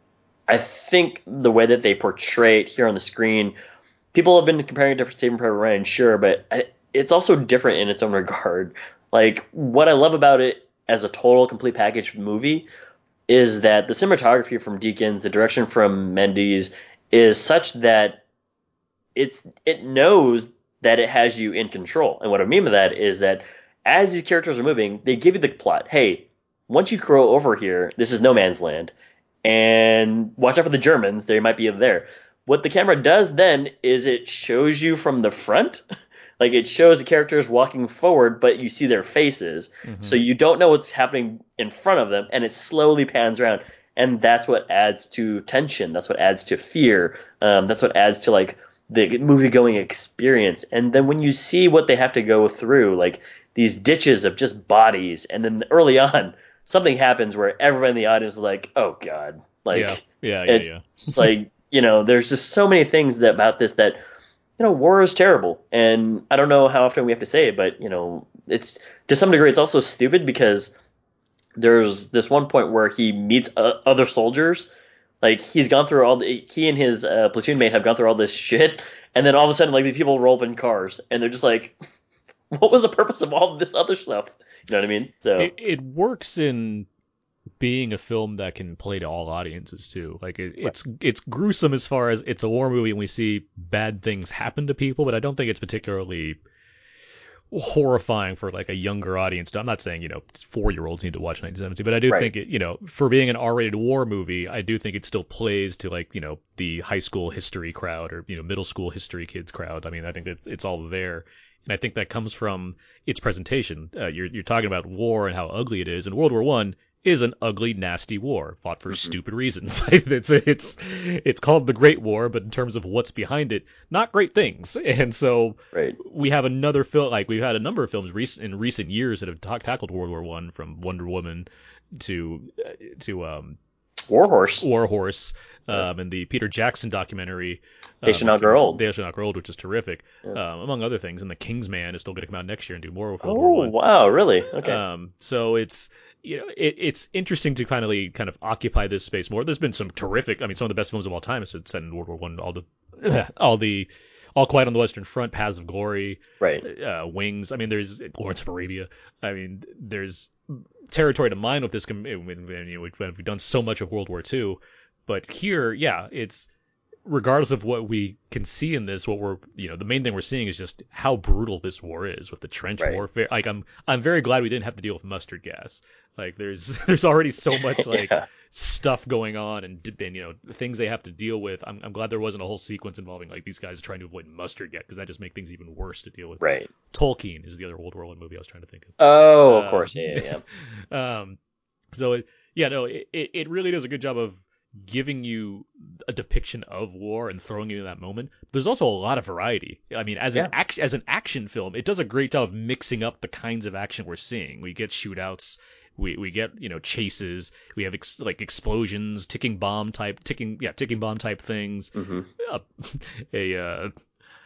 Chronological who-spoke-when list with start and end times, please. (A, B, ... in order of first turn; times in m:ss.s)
0:00.5-0:03.5 A
0:04.1-0:12.7 A
0:13.3-0:18.2 A
0:19.2-0:28.9 A
0:29.4-0:35.8 A
0:36.4-1:04.0 A
0:39.8-0:40.2 B
0:59.7-1:01.3 B
1:04.6-1:10.7 A
1:11.6-1:14.7 A
1:15.2-1:21.8 A
1:22.5-1:25.5 A
1:25.4-1:26.9 B
1:27.6-1:36.4 B
1:37.5-2:13.6 B
1:42.1-1:42.3 A
2:14.1-2:14.6 A
2:14.6-2:23.7 B
2:18.0-2:18.8 A
2:23.2-2:24.8 A
2:24.6-2:46.5 B
2:47.0-3:11.4 B
2:57.5-2:58.2 A
3:06.4-3:06.7 A
3:09.0-3:10.4 A
3:11.9-3:33.9 B
3:31.9-3:32.3 A